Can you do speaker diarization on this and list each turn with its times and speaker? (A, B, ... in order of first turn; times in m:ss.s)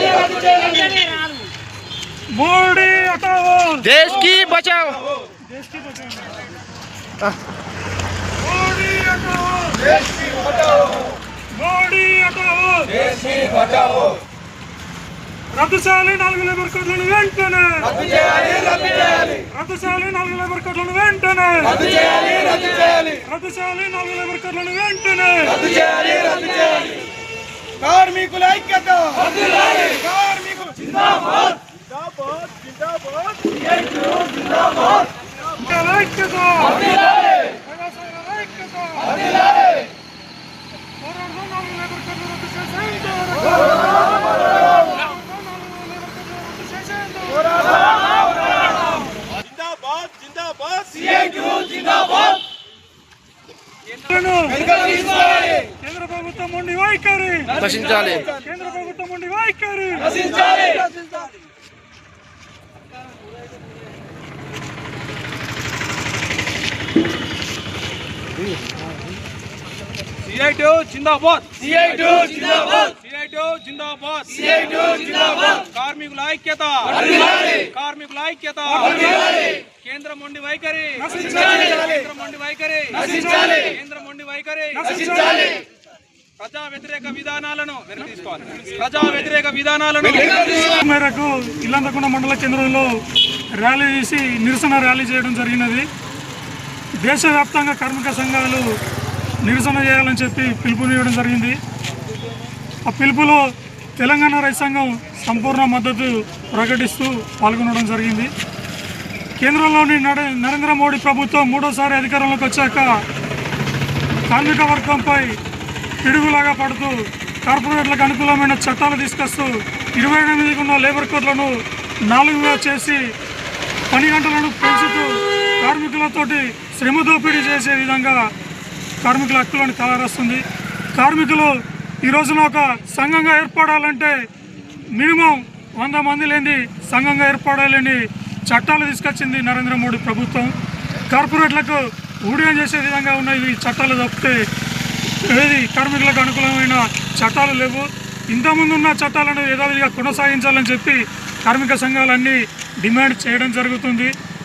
0:00.6-0:01.2 A
0:02.3-0:04.4 A
0:04.0-0:05.0 B
0:05.5-0:06.2 A
0:08.4-0:10.0 A
0:11.5-0:13.6 A
0:15.5-0:26.5 A
0:27.8-0:30.9 B
0:32.1-0:33.5 B
0:35.4-0:39.3 A
0:41.0-0:48.0 A
0:49.5-0:52.0 B
0:54.0-1:00.6 A
0:57.7-0:58.2 B
1:10.2-1:25.6 B
1:24.8-1:25.2 A
1:26.4-1:30.5 B
1:30.4-1:33.0 A
1:33.5-1:35.9 A
1:36.9-1:38.8 A
1:39.4-1:41.6 A
1:42.8-1:48.3 A
1:49.4-1:53.0 A
1:54.3-1:55.4 A
1:56.0-2:03.1 A
2:03.9-2:08.3 A
2:09.0-2:14.3 A
2:14.8-2:20.6 A
2:21.1-2:24.5 A
2:25.1-2:34.1 A